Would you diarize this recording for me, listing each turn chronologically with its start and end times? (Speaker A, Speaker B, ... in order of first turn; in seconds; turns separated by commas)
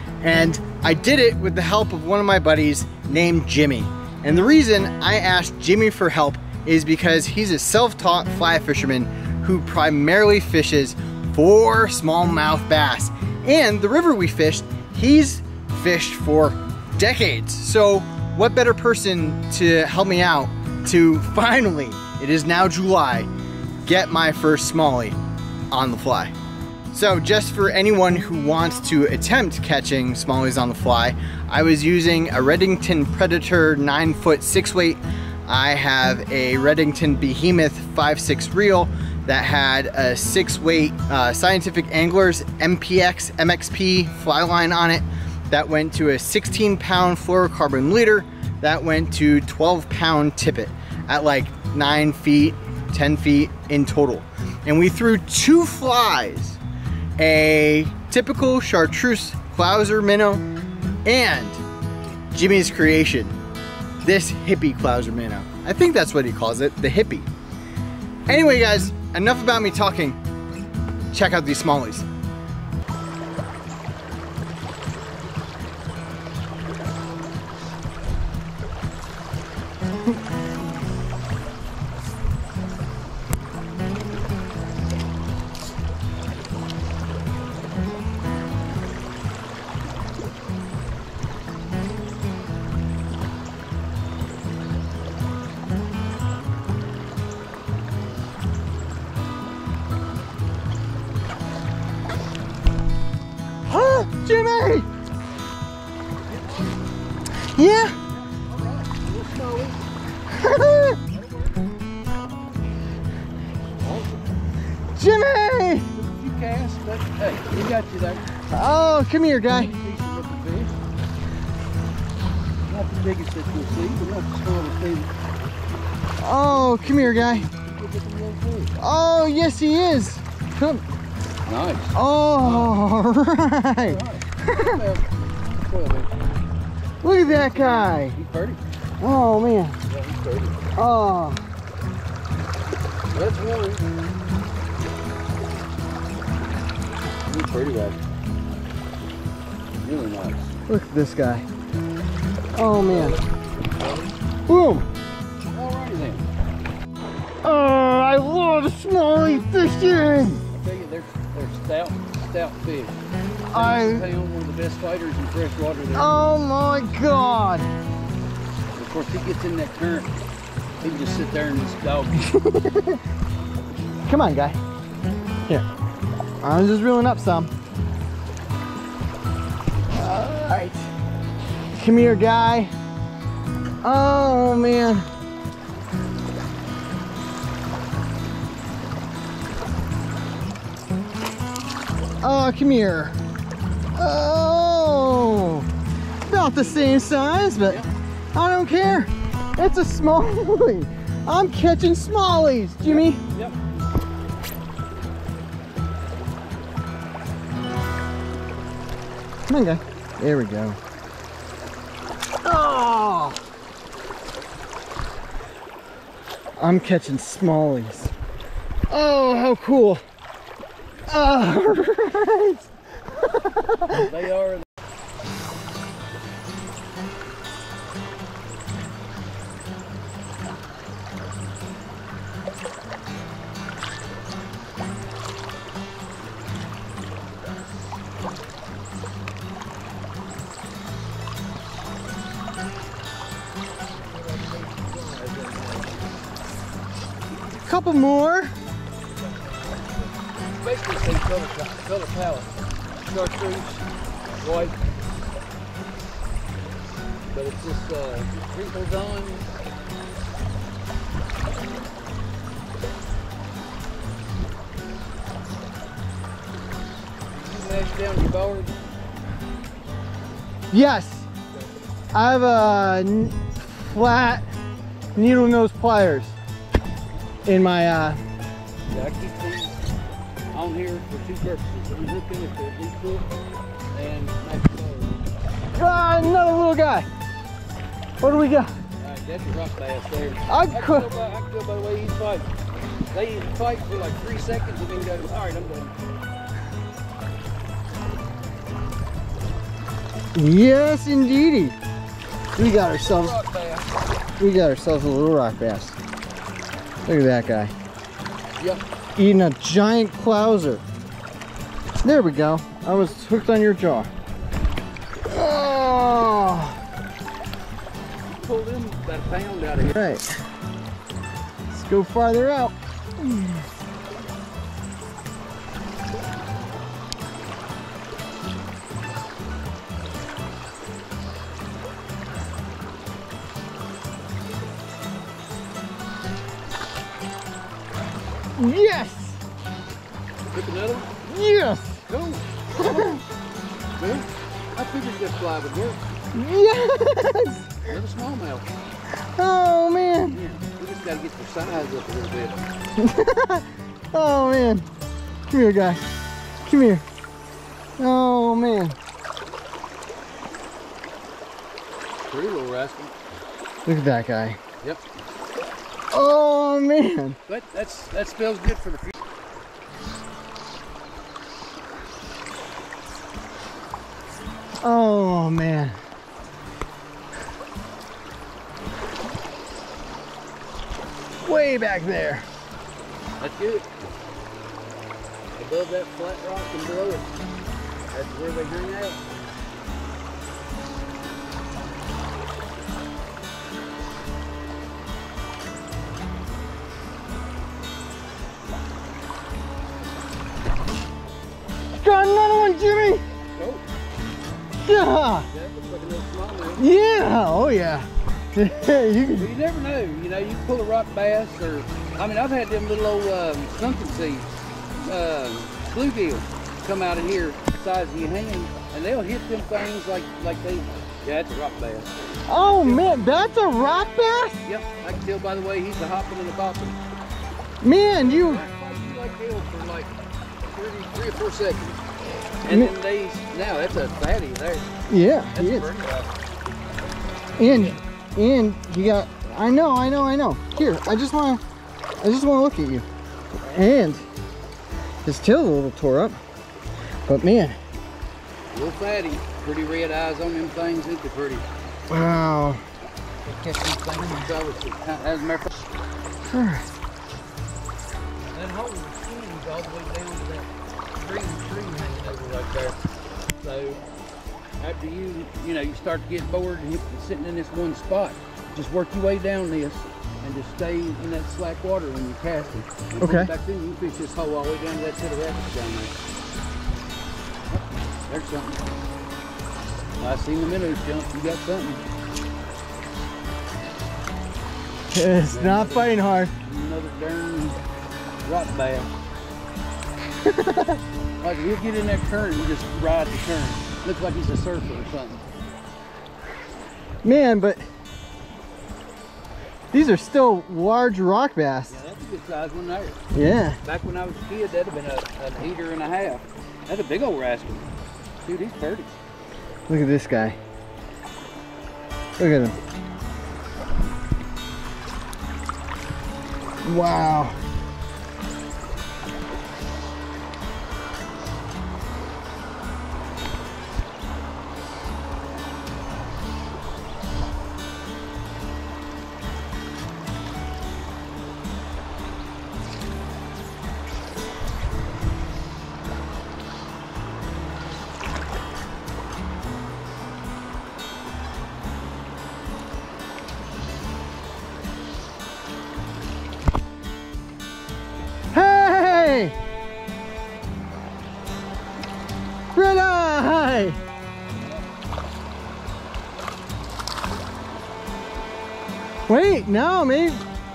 Speaker A: 0.2-23.3, Speaker A: 23.8-25.2, Speaker A: 25.7-26.3, Speaker A: 26.9-56.6, Speaker A: 57.2-60.4, Speaker A: 61.0-61.6, Speaker A: 62.3-63.3, Speaker A: 64.0-67.2, Speaker A: 68.3-70.2, Speaker A: 71.1-72.0, Speaker A: 103.7-104.9, Speaker B: 106.3-106.8, Speaker A: 107.5-108.0, Speaker B: 108.0-109.8, Speaker A: 110.3-111.0, Speaker B: 111.1-111.5, Speaker B: 113.8-114.3, Speaker A: 114.9-115.9, Speaker B: 115.9-118.2, Speaker A: 118.5-119.7, Speaker B: 119.4-120.7, Speaker B: 122.7-125.1, Speaker A: 126.2-127.5, Speaker B: 126.5-128.7, Speaker A: 128.8-130.8, Speaker B: 131.4-132.8, Speaker A: 131.9-134.8, Speaker B: 133.8-136.2, Speaker A: 137.0-138.2, Speaker B: 137.2-138.6, Speaker A: 139.0-139.8, Speaker B: 139.9-140.7, Speaker A: 140.8-141.4, Speaker B: 143.1-143.9, Speaker B: 147.2-148.0, Speaker B: 149.8-150.5, Speaker A: 150.7-151.5, Speaker A: 152.5-153.2, Speaker B: 152.8-154.1, Speaker A: 154.5-154.8, Speaker B: 155.5-156.2, Speaker A: 157.4-160.4, Speaker B: 160.5-162.9, Speaker A: 163.5-164.0, Speaker B: 163.5-166.3, Speaker A: 165.9-167.7, Speaker B: 168.8-170.2, Speaker B: 170.8-172.3, Speaker A: 172.2-173.0, Speaker A: 174.1-174.6, Speaker A: 176.4-177.5, Speaker A: 179.9-180.8, Speaker A: 181.8-182.7, Speaker A: 183.8-185.1, Speaker A: 192.2-193.2, Speaker A: 193.9-195.7, Speaker A: 196.3-197.8, Speaker A: 198.3-203.2, Speaker B: 202.8-203.6, Speaker A: 209.5-210.8, Speaker A: 212.4-213.4, Speaker A: 216.6-218.1, Speaker A: 218.9-220.0, Speaker A: 221.1-222.7, Speaker A: 223.2-224.1, Speaker B: 223.9-224.7, Speaker B: 244.0-246.1, Speaker A: 247.6-248.5, Speaker B: 249.1-252.5, Speaker B: 253.1-253.8, Speaker B: 254.4-254.8, Speaker B: 257.3-259.5, Speaker B: 267.3-268.7, Speaker A: 270.7-271.3, Speaker A: 272.1-274.5, Speaker A: 275.1-276.4, Speaker A: 277.4-278.2, Speaker B: 278.9-279.7, Speaker B: 280.5-283.3, Speaker B: 283.9-285.1, Speaker A: 285.7-287.1, Speaker A: 288.2-288.8, Speaker B: 289.0-292.5, Speaker A: 290.5-291.1, Speaker B: 293.1-295.9, Speaker A: 300.3-301.8, Speaker A: 302.6-303.4, Speaker B: 302.9-303.9, Speaker A: 304.4-306.0, Speaker A: 307.1-307.7, Speaker A: 309.1-310.8, Speaker A: 312.0-314.1, Speaker A: 315.3-316.8, Speaker B: 318.3-320.0, Speaker A: 319.8-320.2, Speaker A: 321.7-323.6, Speaker A: 338.6-339.4, Speaker B: 340.5-341.2, Speaker A: 341.2-342.0, Speaker B: 342.1-343.2, Speaker A: 342.8-343.2, Speaker B: 344.0-346.0, Speaker A: 346.3-347.7, Speaker B: 347.9-348.7, Speaker A: 349.4-350.4, Speaker B: 350.3-352.7, Speaker A: 352.9-354.9, Speaker A: 355.5-356.0, Speaker A: 356.6-357.0, Speaker A: 358.0-358.9, Speaker B: 362.2-363.1, Speaker A: 363.9-364.6, Speaker A: 366.1-367.4, Speaker B: 367.5-369.1, Speaker A: 374.8-375.9, Speaker A: 381.4-382.4, Speaker B: 383.4-383.9, Speaker B: 385.5-387.3, Speaker B: 388.1-389.5, Speaker A: 402.0-403.2, Speaker B: 403.5-403.9, Speaker A: 404.8-405.5, Speaker B: 405.5-406.9, Speaker A: 406.8-409.5, Speaker B: 409.3-414.5, Speaker B: 415.0-422.1, Speaker A: 422.5-424.6, Speaker B: 422.7-423.2, Speaker B: 424.6-427.0, Speaker A: 427.8-428.6, Speaker B: 428.1-430.1, Speaker B: 430.7-432.0, Speaker B: 432.6-434.9, Speaker A: 435.1-435.9, Speaker B: 435.5-436.3, Speaker A: 437.6-441.6, Speaker B: 437.6-438.0, Speaker A: 442.2-443.1, Speaker A: 443.6-444.2, Speaker A: 445.2-446.4, Speaker A: 447.2-447.8, Speaker B: 448.7-451.6, Speaker A: 452.1-452.8, Speaker B: 453.4-455.7, Speaker A: 456.4-456.8, Speaker B: 458.5-462.9, Speaker B: 463.6-464.0, Speaker B: 464.8-476.1, Speaker A: 473.2-473.5, Speaker B: 477.7-478.8, Speaker B: 480.2-482.0, Speaker A: 485.1-486.5, Speaker B: 485.5-487.8, Speaker B: 488.4-489.1, Speaker A: 490.4-491.0, Speaker B: 491.4-495.4, Speaker A: 497.2-497.8, Speaker A: 499.9-502.0, Speaker B: 501.9-503.2, Speaker A: 503.3-503.8, Speaker B: 503.8-507.9, Speaker B: 508.4-509.1, Speaker A: 509.9-510.6, Speaker A: 512.4-512.8, Speaker A: 516.8-517.6, Speaker A: 548.5-549.5, Speaker A: 552.7-554.0, Speaker A: 559.3-560.4